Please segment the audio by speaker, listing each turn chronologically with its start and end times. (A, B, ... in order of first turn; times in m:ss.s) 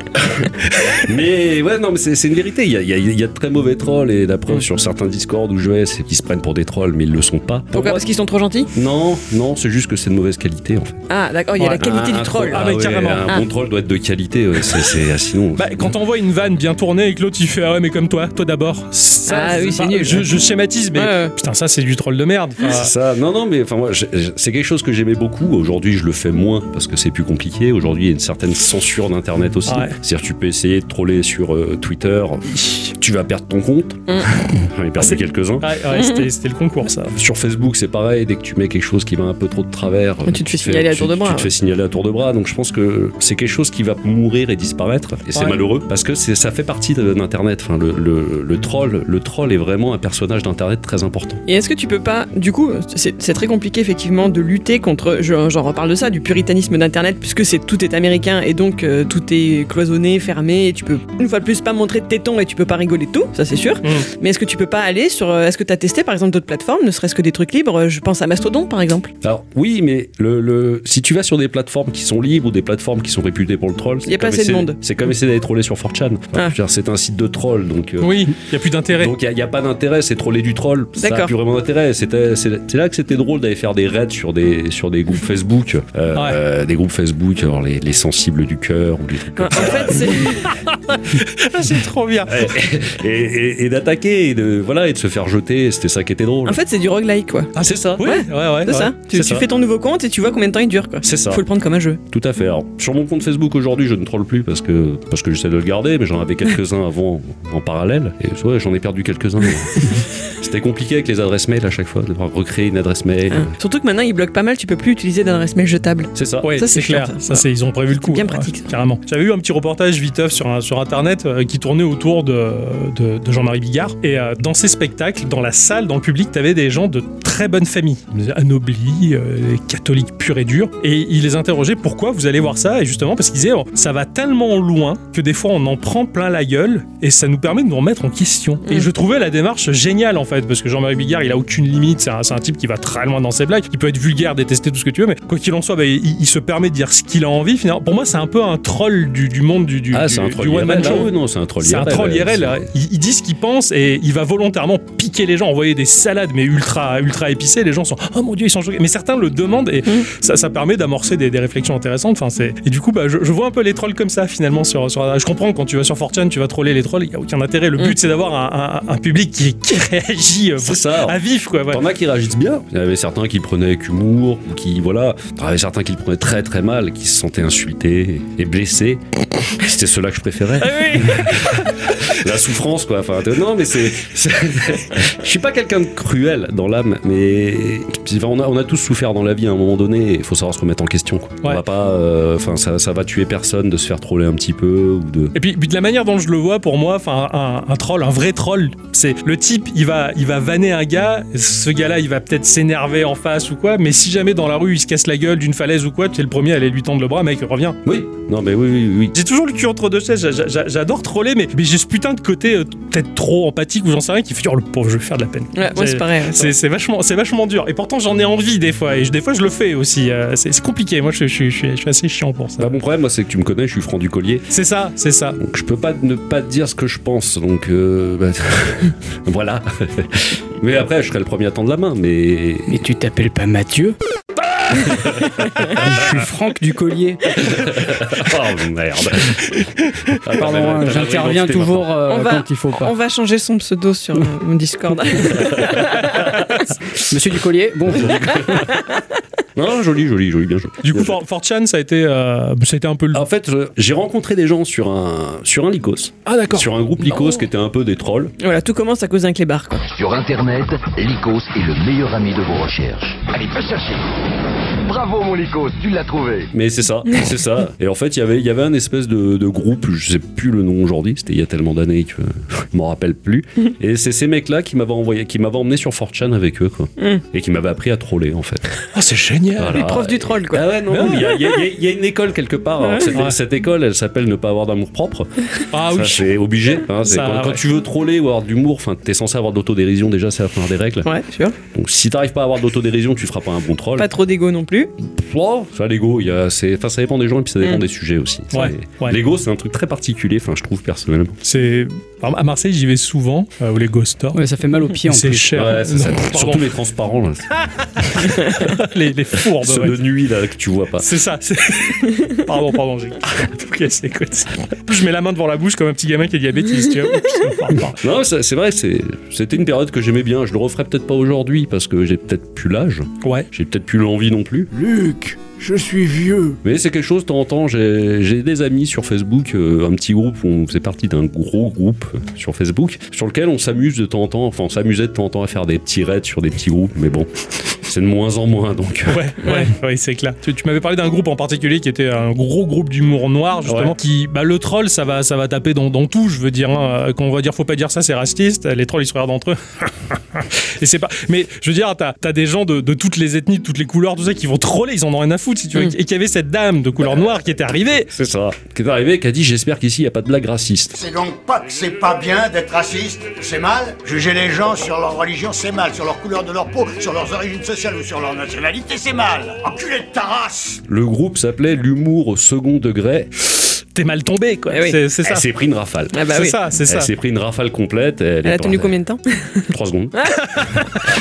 0:00.2-0:08.0 A
0:07.7-0:08.7 B
0:08.7-0:11.1 A
0:11.1-0:12.7 B
0:11.8-0:15.9 A
0:12.5-0:13.3 C
0:15.6-0:22.9 C
0:19.3-0:20.3 B
0:21.0-0:21.3 B
0:22.7-0:35.8 A
0:29.7-0:30.0 C
0:35.0-0:37.2 C
0:35.9-0:36.2 B
0:37.1-0:51.4 A
0:40.3-0:41.5 B
0:45.3-0:45.6 C
0:51.5-1:09.1 B
1:09.2-1:18.3 A
1:14.1-1:14.8 B
1:18.0-1:19.1 C
1:18.9-1:30.3 A
1:21.0-1:21.3 B
1:29.4-1:30.6 B
1:30.6-1:32.5 C
1:32.2-1:36.6 A
1:36.4-1:42.0 B
1:37.6-1:38.9 C
1:37.6-1:38.2 A
1:39.1-1:39.5 A
1:41.0-1:41.4 A
1:42.1-1:53.5 A
1:53.3-1:57.4 B
1:56.2-1:56.5 A
1:56.4-2:51.8 C
1:58.0-1:58.7 B
2:29.9-2:32.7 A
2:30.7-2:31.1 B
2:50.6-3:15.3 A
3:00.6-3:01.7 B
3:15.3-3:27.8 C
3:27.8-3:29.2 A
3:29.2-3:42.7 C
3:35.6-3:36.5 B
3:42.6-3:44.5 A
3:44.5-3:45.4 C
3:45.4-3:52.8 A
3:52.7-3:54.0 D
3:54.7-3:56.2 A
3:55.7-3:57.2 D
3:57.5-4:01.9 A
4:00.3-4:02.9 D
4:02.1-4:06.3 B
4:05.3-4:06.5 A
4:07.1-4:08.5 D
4:07.9-4:08.7 A
4:08.7-4:08.9 B
4:09.6-4:11.2 A
4:10.8-4:13.2 C
4:13.1-4:18.4 A
4:16.3-4:16.7 C
4:18.4-4:19.9 B
4:19.9-4:24.1 E
4:24.8-4:26.5 E
4:26.5-4:38.8 A
4:38.9-4:39.8 C
4:39.6-4:51.1 A
4:39.7-4:41.4 B
4:40.9-4:41.2 C
4:42.8-4:43.1 B
4:45.7-4:46.3 C
4:47.0-4:47.6 C
4:51.0-4:51.6 B
4:51.7-4:54.1 A
4:54.0-4:54.9 B
4:55.0-5:01.4 A
4:58.5-4:59.2 C
5:01.4-5:04.4 C
5:04.3-5:05.6 D
5:05.0-5:06.7 C
5:05.5-5:07.5 A
5:07.6-5:10.0 C
5:09.6-5:11.1 A
5:11.0-5:18.0 C
5:18.0-5:24.7 A
5:23.2-5:23.5 C
5:24.7-5:26.6 E
5:26.6-5:39.6 A
5:39.1-5:58.1 C
5:43.6-5:44.0 A
5:58.1-6:01.0 A
6:01.0-6:10.8 F
6:10.9-6:13.3 A
6:13.6-6:15.4 C
6:14.7-6:15.0 B
6:15.2-6:16.3 A
6:16.1-6:16.6 B
6:16.3-6:17.1 C
6:16.9-6:19.0 A
6:18.4-6:20.4 B
6:19.7-6:20.3 A